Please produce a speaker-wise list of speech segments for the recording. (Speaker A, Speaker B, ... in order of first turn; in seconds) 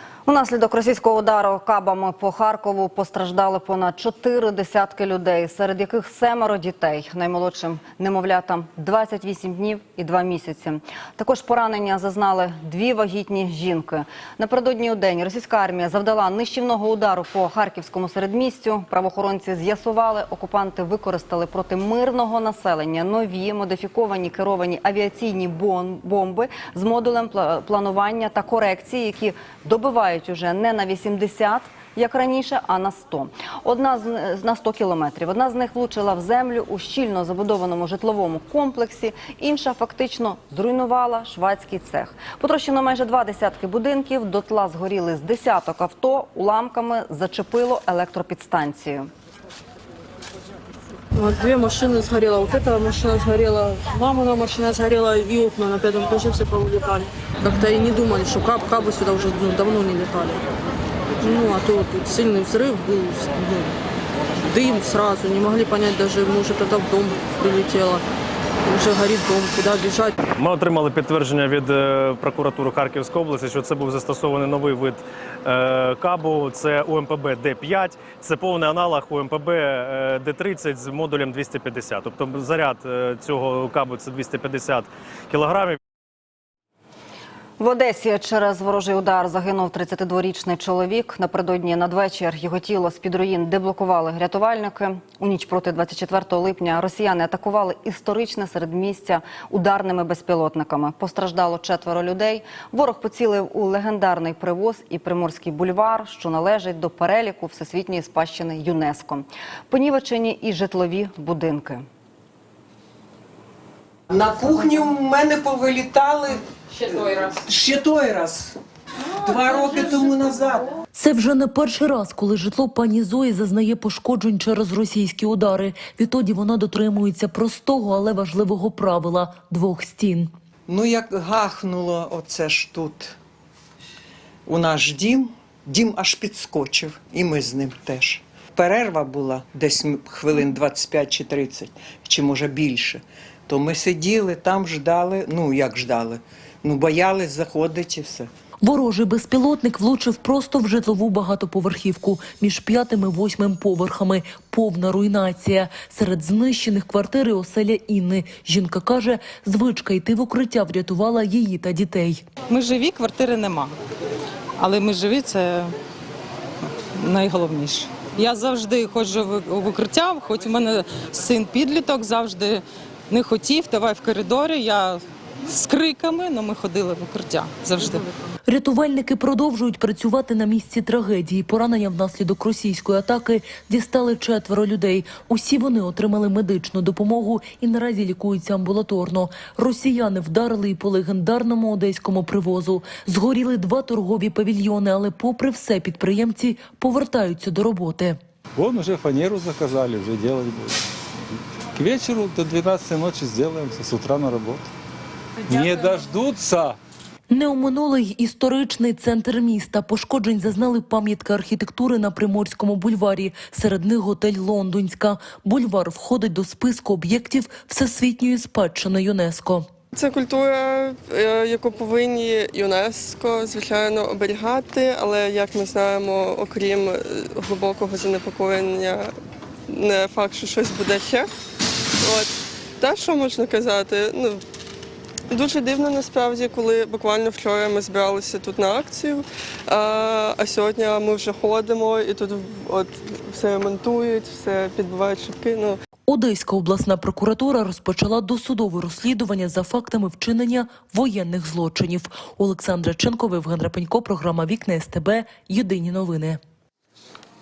Speaker A: 0.3-49.1, 87.6-111.9
Speaker B: 51.2-60.4, 61.2-63.7, 64.5-68.0, 68.7-70.1
Speaker C: 70.3-85.8
Speaker D: 114.1-118.6, 119.1-120.7, 130.7-133.2, 134.5-148.3
Speaker E: 120.9-130.3, 148.6-162.3, 178.5-198.2, 207.3-219.7, 246.1-256.4
Speaker F: 162.5-163.7, 164.6-165.7, 167.1-172.6, 173.1-175.0, 175.6-178.0
Speaker G: 198.6-200.8, 201.8-204.7, 205.5-206.8
Speaker H: 219.9-229.1, 229.7-231.3, 232.0-234.4, 235.3-245.8